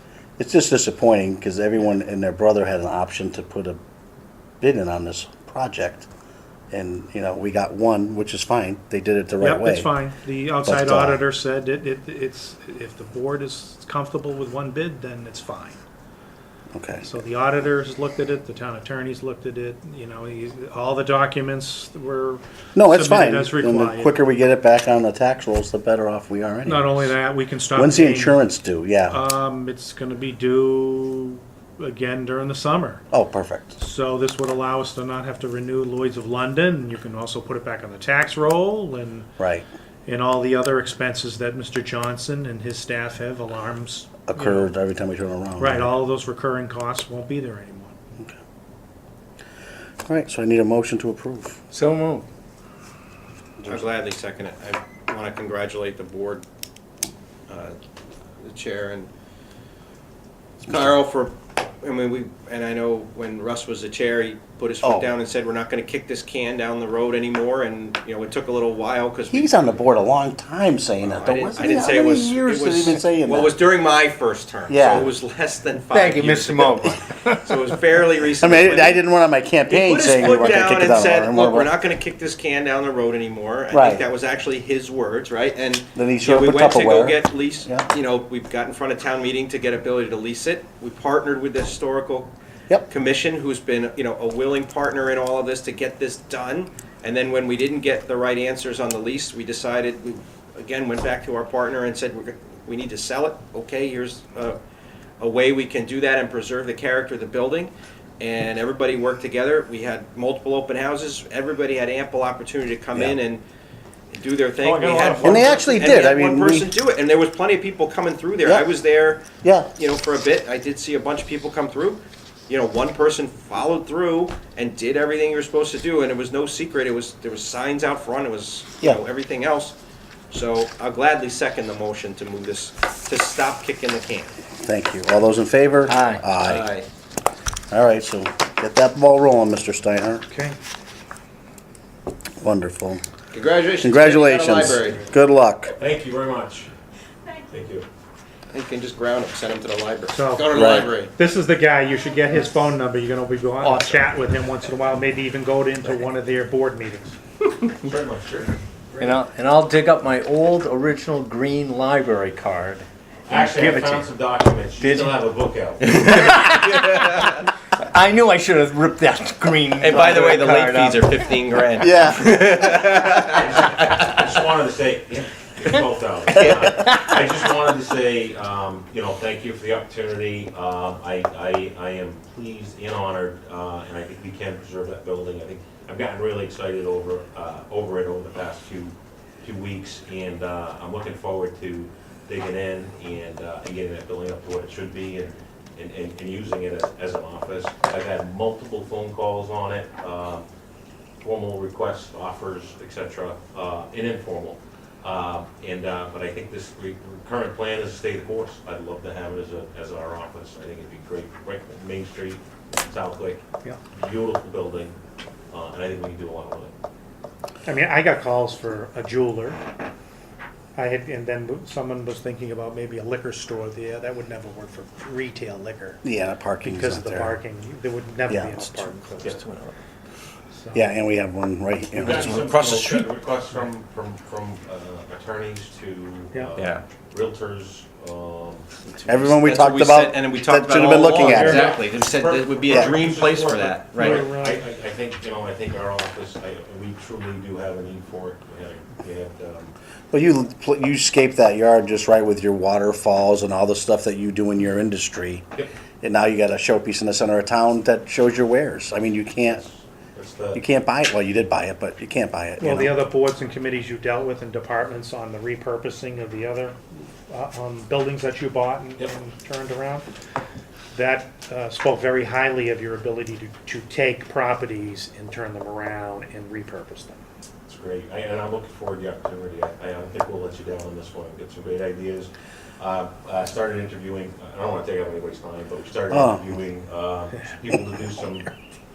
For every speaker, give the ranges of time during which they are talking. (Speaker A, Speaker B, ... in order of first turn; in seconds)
Speaker A: 0.4-3.8, 4.6-6.1, 6.7-9.9, 10.6-11.2, 16.7-17.0, 22.7-27.1, 27.7-29.2, 33.1-33.8, 39.4-39.6, 44.3-45.9, 50.0-51.6, 64.8-65.1, 69.3-73.6, 74.7-75.1, 78.4-81.7, 83.7-84.0, 85.9-87.9, 115.2-116.7, 119.4-119.7, 134.6-136.7, 137.7-140.2, 142.4-143.0, 143.8-145.7, 150.5-150.9, 171.8-172.2, 226.0-227.4, 228.3-228.9, 230.7-232.3, 239.1-241.8, 250.1-255.4, 256.0-259.6, 260.5-262.9, 286.1-286.4
Speaker B: 9.4-15.8, 17.0-24.1, 26.7-28.4, 29.1-33.0, 33.8-39.3, 40.0-44.7, 45.6-48.0, 114.6-115.6, 140.3-140.6, 150.1-157.2, 217.7-219.6, 220.8-226.0, 226.6-229.4, 230.5-230.9, 241.2-241.8, 243.9-244.6, 262.6-266.8, 267.3-270.1, 270.9-277.2
Speaker C: 51.7-52.2, 75.9-77.7, 135.9-136.2, 153.6-154.1, 159.0-164.1, 164.8-165.1, 166.0-167.1, 167.8-171.1
Speaker D: 53.6-56.4, 57.5-57.8, 58.4-59.1, 60.6-69.8, 71.1-79.0, 79.7-92.3, 92.9-104.6, 105.2-113.4, 114.1-129.8, 130.3-134.3, 136.4-136.9, 143.3-145.1, 148.5-151.1, 165.8-167.3, 169.8-173.9, 229.2-229.7, 232.0-233.1, 236.6-236.8, 238.8-244.3
Speaker E: 145.7-146.7, 147.5-147.9, 157.8-158.6, 163.3-165.9, 173.3-200.4, 201.2-213.4, 213.9-214.9, 215.5-216.7, 232.0-238.8, 241.6-249.7, 259.4-260.6, 277.7-288.5